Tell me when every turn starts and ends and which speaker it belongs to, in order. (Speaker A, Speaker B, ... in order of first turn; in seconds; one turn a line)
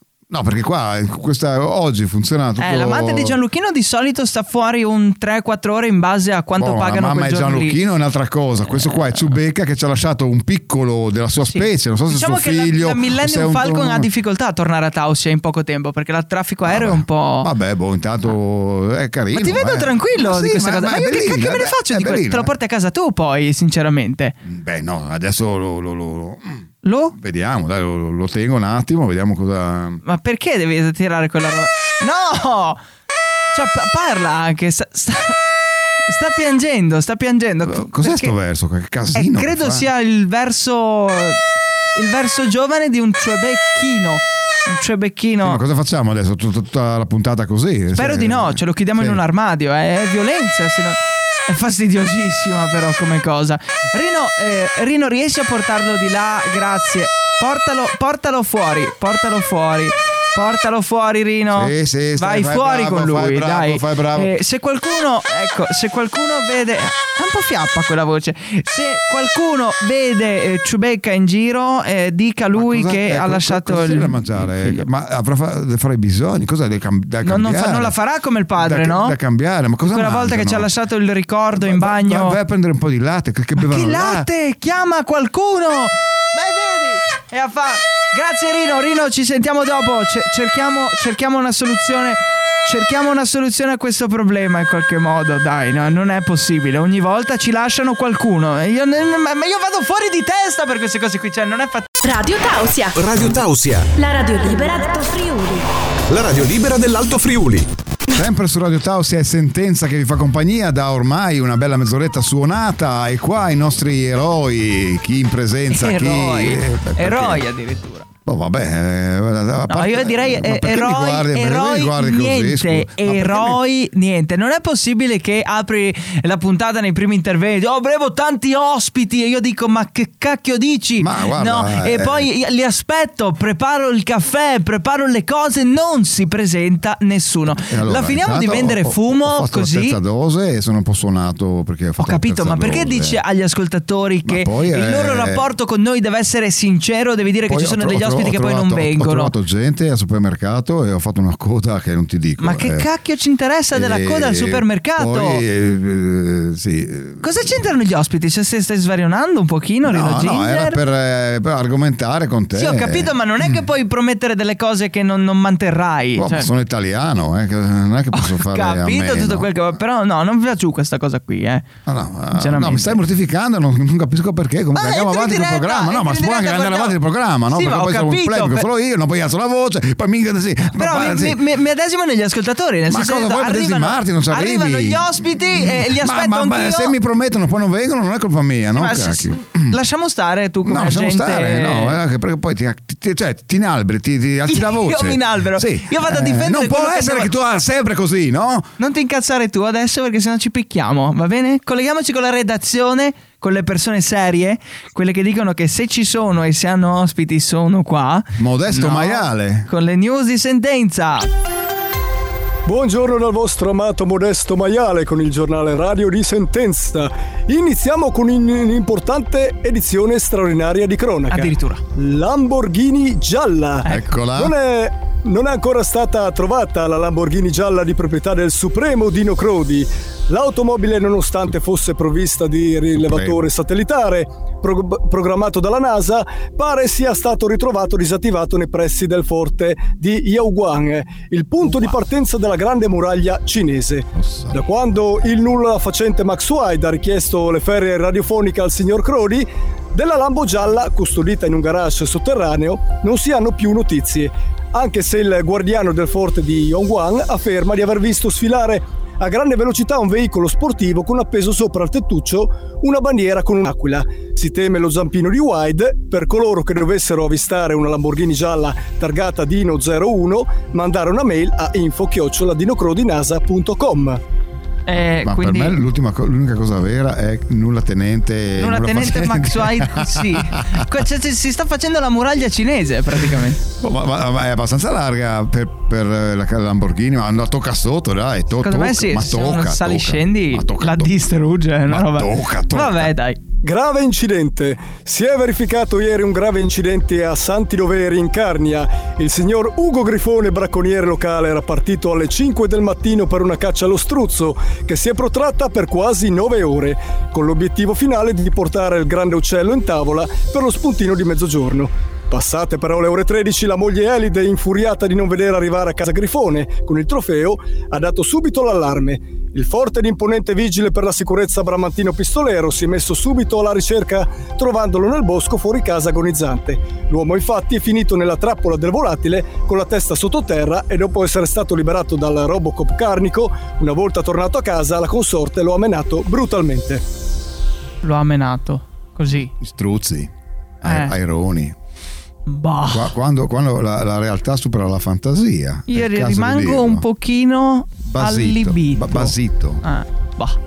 Speaker A: 0.3-3.4
Speaker B: 2.6-7.8
Speaker A: 6.6-14.1
Speaker B: 8.7-9.3
Speaker B: 11.5-17.5
Speaker A: 16.6-22.5
Speaker B: 19.3-24.3
Speaker A: 24.4-30.0
Speaker B: 26.8-27.1
Speaker B: 30.0-32.8
Speaker B: 33.5-35.4
Speaker B: 36.1-38.3
Speaker A: 37.6-39.9
Speaker B: 39.1-41.4
Speaker B: 41.9-45.6
Speaker A: 45.4-49.2
Speaker B: 47.9-74.8
Speaker A: 61.5-64.3
Speaker A: 72.5-77.9
Speaker B: 77.2-79.2
Speaker A: 78.6-80.7
Speaker B: 79.9-82.4
Speaker A: 81.5-84.3
Speaker B: 83.6-101.9
Speaker C: 102.0-103.0
Speaker D: 103.0-103.9
Speaker C: 103.9-105.7
Speaker D: 106.1-107.7
Speaker A: 108.1-117.4
Speaker B: 115.7-118.1
Speaker A: 118.2-123.6
Speaker B: 119.7-140.0
Speaker A: 131.0-132.3
Speaker A: 137.6-143.2
Speaker B: 142.0-149.3
Speaker A: 144.2-145.4
Speaker A: 147.4-152.8
Speaker B: 152.4-155.4
Speaker A: 153.7-157.7
Speaker B: 157.2-160.8
Speaker A: 159.8-163.6
Speaker B: 162.5-166.5
Speaker A: 166.2-169.5
Speaker B: 168.1-171.7
Speaker A: 171.8-181.4
Speaker B: 172.3-173.0
Speaker B: 174.7-176.9
Speaker B: 177.5-178.7
Speaker B: 180.7-186.9
Speaker A: 182.9-189.8
Speaker B: 188.7-192.0
Speaker A: 190.6-198.7
Speaker B: 194.5-197.3
Speaker B: 198.8-211.3
Speaker A: 208.4-209.7
Speaker E: 212.7-274.2
Speaker B: 221.3-221.8
Speaker A: 223.9-224.5
Speaker A: 233.0-233.4
Speaker A: 244.2-244.6
Speaker B: 274.9-275.8
Speaker A: 275.2-280.9
Speaker B: 278.6-283.6
Speaker A: 283.8-291.2
Speaker B: 288.6-293.4
Speaker A: 291.9-293.1
Speaker E: 293.6-337.0
Speaker B: 338.0-339.5
Speaker A: 339.5-341.7
Speaker B: 340.8-341.1
Speaker B: 342.4-343.1
Speaker A: 342.9-347.0
Speaker B: 345.9-350.6
Speaker A: 348.0-349.8